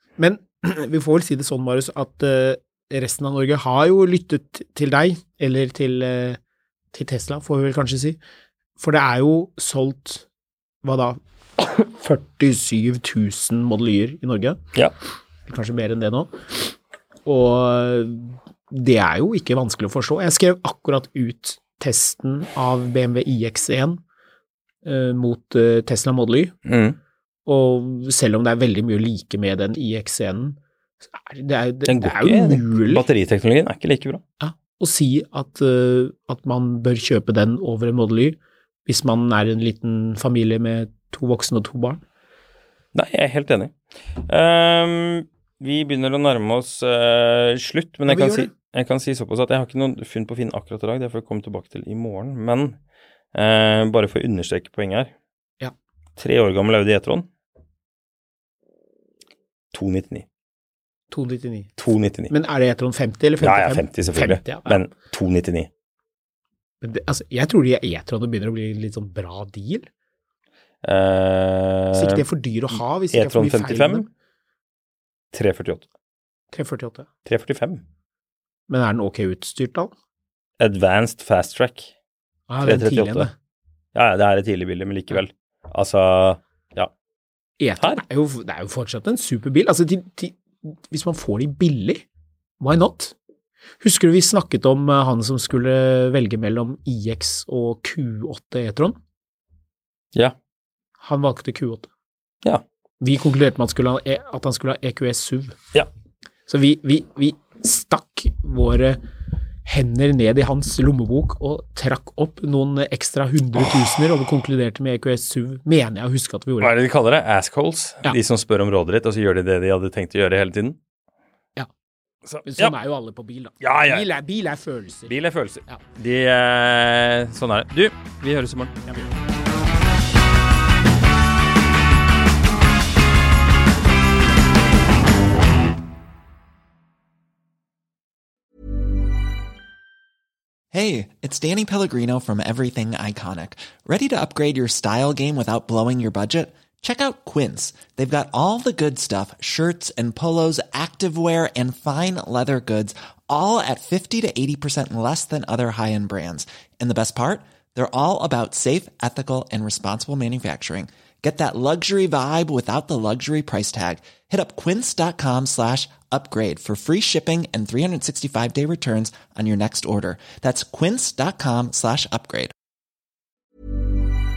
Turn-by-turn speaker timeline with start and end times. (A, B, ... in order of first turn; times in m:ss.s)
0:00.2-0:06.4 A
0:06.9-0:08.2 A
0:08.8-0:10.2 A
0:10.8-0:14.6 A
0:15.5-0:16.4 A
0:17.2-0:24.0 A
0:24.8-0:26.5 A
0:26.6-0:27.0 B
0:27.4-0:30.6 A
0:31.1-0:33.0 A
0:31.9-0:34.2 B
0:34.4-0:42.0 A
0:42.9-0:43.7 B
0:44.3-0:52.8 B
0:48.1-0:48.5 A
0:53.3-0:55.1 B
0:56.2-0:57.3 B
0:59.7-1:00.2 B
1:01.1-1:01.7 A
1:01.8-1:02.3 B
1:02.3-1:04.8 A
1:03.4-1:05.7 B
1:06.8-1:09.8 A
1:10.8-1:12.2 B
1:11.9-1:14.1 A
1:13.1-1:14.0 B
1:15.3-1:15.8 B
1:16.5-1:17.1 A
1:17.2-1:17.8 B
1:18.7-1:19.9 A
1:20.6-1:21.9 B
1:22.5-1:23.3 A
1:22.6-1:23.3 B
1:23.9-1:26.9 B
1:27.6-1:32.0 A
1:32.6-1:33.1 A
1:33.8-1:39.0 A
1:41.0-1:41.9 A
1:43.0-1:45.6 A
1:46.5-1:49.0 A
1:49.6-1:56.7 A
1:56.6-2:00.8 B
2:02.2-2:02.7 B
2:02.4-2:05.1 A
2:03.6-2:04.1 B
2:05.1-2:08.8 B
2:20.7-2:52.5 C